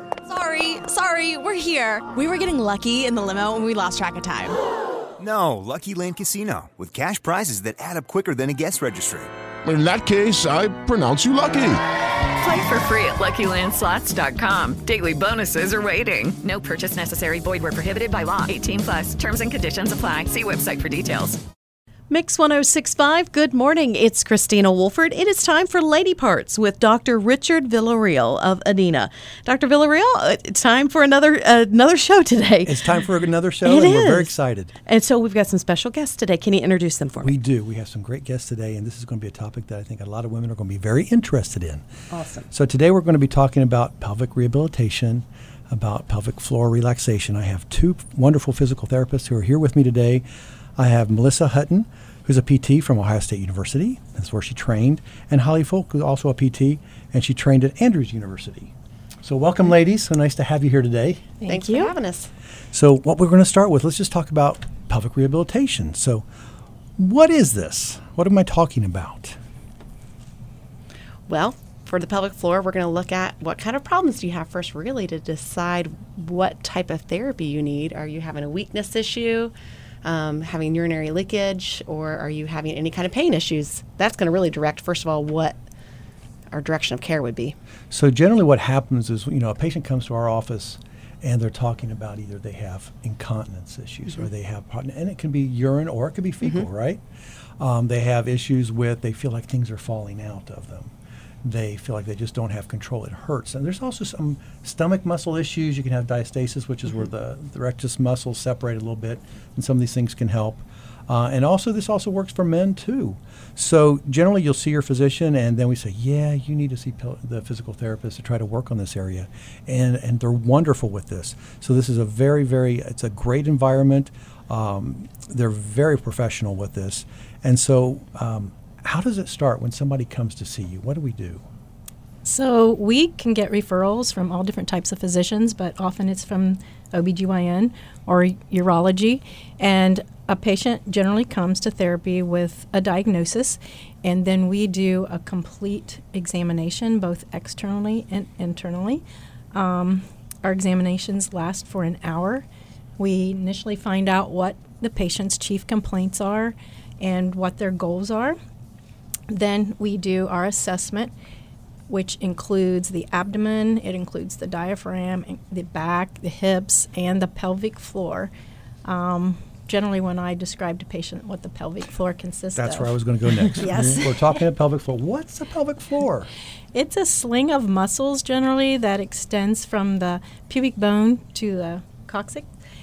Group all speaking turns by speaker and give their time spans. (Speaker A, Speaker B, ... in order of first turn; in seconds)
Speaker A: 0.3-4.5, 22.1-23.9, 25.1-25.6
Speaker B: 5.2-9.3
Speaker C: 9.6-11.8
Speaker D: 12.4-21.4
Speaker E: 23.6-33.1, 33.6-34.3, 34.9-37.3, 42.1-42.5
Speaker F: 32.6-34.7, 37.2-61.3, 62.7-66.3, 67.0-69.4, 87.9-97.0, 97.6-100.9, 101.4-131.5, 172.6-176.3
Speaker G: 61.4-61.9, 132.2-152.4, 153.0-158.4, 159.3-161.1, 161.9-168.3, 168.8-173.0, 173.5-174.4, 176.7-182.5
Speaker H: 61.5-62.3, 71.3-79.5, 80.0-85.6, 86.5-87.6